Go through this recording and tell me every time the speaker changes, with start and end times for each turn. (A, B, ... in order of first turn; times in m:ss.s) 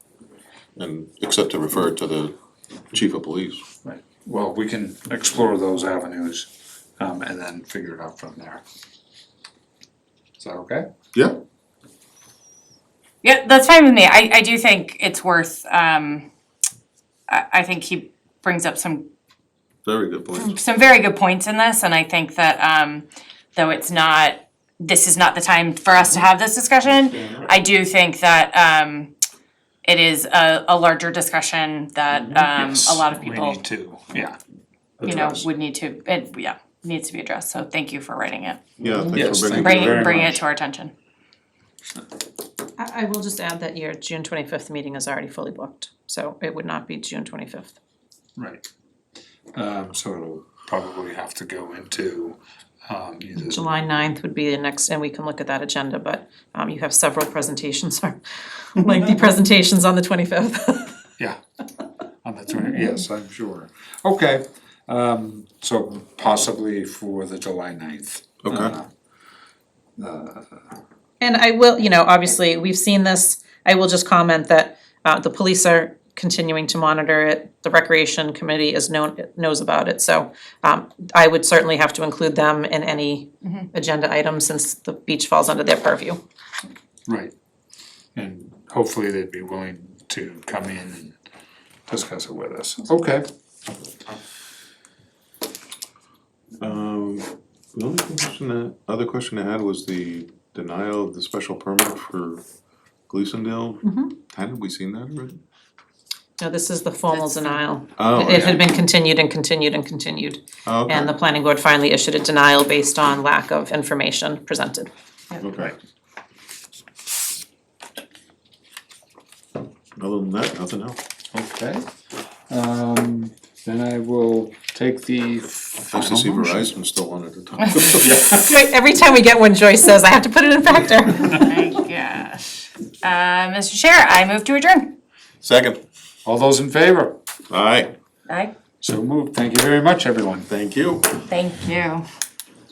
0:00.8-0:02.3 A
0:02.9-0:03.6 A
0:03.8-0:08.6 B
0:10.4-0:10.9 B
0:11.1-0:11.4 A
0:13.2-0:16.3 C
0:17.3-0:19.1 C
0:19.8-0:20.6 A
0:20.4-0:29.1 C
0:27.2-0:27.5 A
0:29.8-0:33.6 C
0:32.3-0:34.4 B
0:35.0-0:35.4 A
0:35.0-0:38.6 C
0:38.8-0:40.2 A
0:39.1-0:40.4 B
0:39.6-0:40.9 C
0:42.8-0:47.7 D
0:48.4-0:48.7 B
0:49.5-0:53.6 B
0:53.4-1:01.0 D
1:02.2-1:08.9 B
1:08.4-1:08.7 A
1:10.0-1:10.6 B
1:11.2-1:26.2 D
1:27.1-1:27.3 B
1:28.1-1:31.1 B
1:31.9-1:33.3 B
1:36.6-1:42.4 A
1:43.1-1:45.4 A
1:43.8-1:44.1 D
1:46.4-1:54.9 D
1:47.1-1:47.6 C
1:48.0-1:48.6 A
1:50.6-1:51.1 A
1:55.4-1:55.8 A
2:00.0-2:01.0 A
2:01.3-2:01.8 B
2:02.5-2:06.7 B
2:05.9-2:08.2 A
2:07.6-2:07.9 C
2:08.0-2:08.5 B
2:08.3-2:11.5 D
2:11.4-2:15.0 C
2:15.4-2:15.8 A
2:16.2-2:17.2 B
2:17.5-2:17.9 A
2:18.3-2:18.5 C
2:18.8-2:20.5 B
2:20.5-2:21.2 A
2:21.3-2:22.0 C